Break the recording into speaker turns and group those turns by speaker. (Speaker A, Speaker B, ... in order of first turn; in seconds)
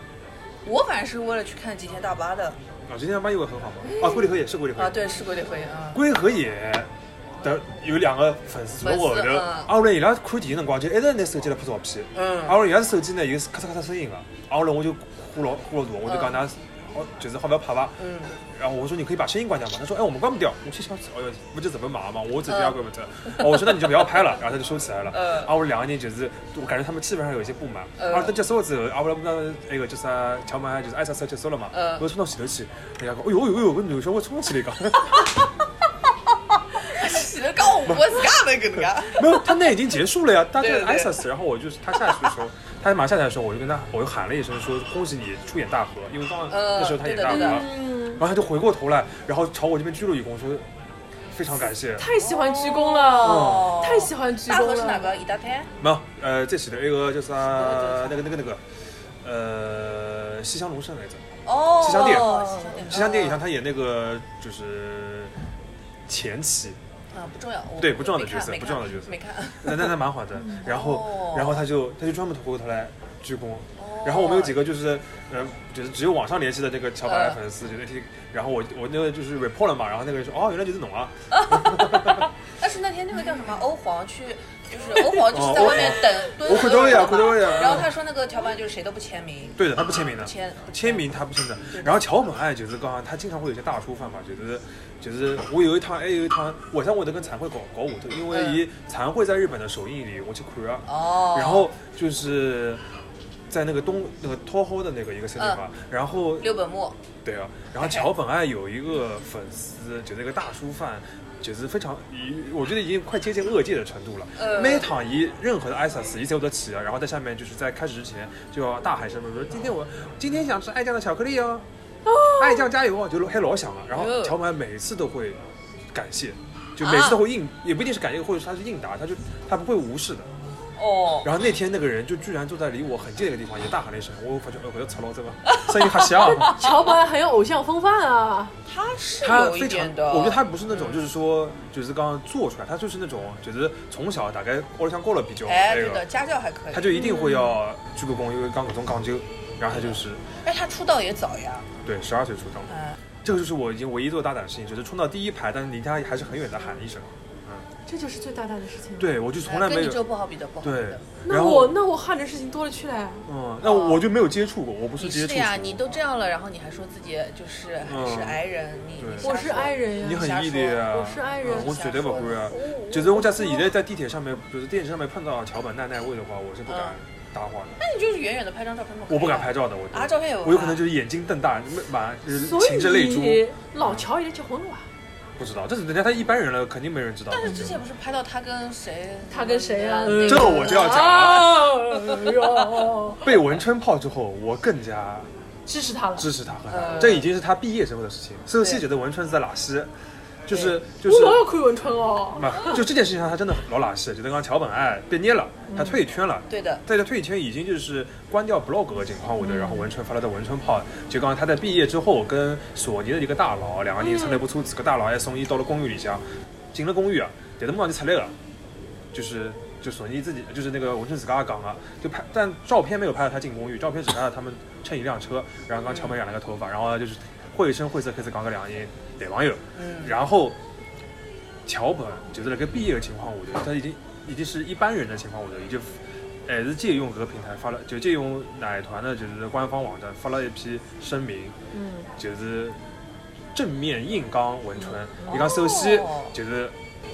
Speaker A: 0.6-2.6, 3.8-6.0, 8.8-9.7, 12.1-12.6, 16.1-16.3, 18.0-18.3, 22.5-22.8, 25.1-25.5, 28.0-28.3, 31.7-32.0, 36.8-39.5, 40.6-41.2, 46.5-47.6, 52.1-55.7, 57.5-58.2, 61.4-63.4, 67.1-69.9, 70.6-71.6, 73.8-74.6, 77.0-77.4, 81.3-91.0, 98.3-98.6, 100.8-101.7, 106.4-107.0, 107.8-108.1, 114.4-114.9, 123.9-124.4, 126.8-127.2, 130.8-131.3, 135.5-136.7, 138.7-141.0, 145.4-147.0, 150.4-151.7, 152.7-153.0, 159.4-161.0, 163.6-164.1, 165.0-173.6, 176.7-176.9, 177.8-180.8, 187.3-191.4, 192.0-192.7, 196.7-197.3, 198.6-198.8, 200.5-200.8, 206.5-206.8, 225.8-226.2, 229.8-230.2, 245.2-246.3
Speaker B: 2.9-5.2, 5.9-6.9, 7.4-35.3, 37.9-38.1, 39.0-50.6, 51.3-52.1, 53.2-53.8, 55.8-58.6, 59.2-65.3, 66.1-66.8, 67.8-82.2, 85.2-87.9, 89.6-102.8, 103.5-106.5, 107.2-121.7, 122.3-125.4, 125.9-130.3, 131.2-136.6, 139.2-146.1, 146.7-150.2, 151.8-157.7, 159.0-160.1, 160.6-161.8, 163.2-165.8, 167.8-168.4, 169.0-177.8, 179.1-184.1, 185.4-187.8, 190.1-191.7, 193.2-195.3, 196.2-199.9, 200.4-201.4, 202.3-218.3, 219.1-230.6, 231.7-241.6, 242.2-242.8, 243.5-246.7
Speaker C: 47.3-48.2, 52.0-55.1, 61.9-62.9, 70.4-70.6, 122.1-122.6, 136.2-138.5, 146.9-147.6, 157.8-159.1, 161.2-163.3, 169.2-171.7, 182.3-184.9, 189.3-193.3, 195.7-196.3, 201.0-202.8, 205.7-206.0, 209.4-209.9, 214.0-214.4, 241.7-242.1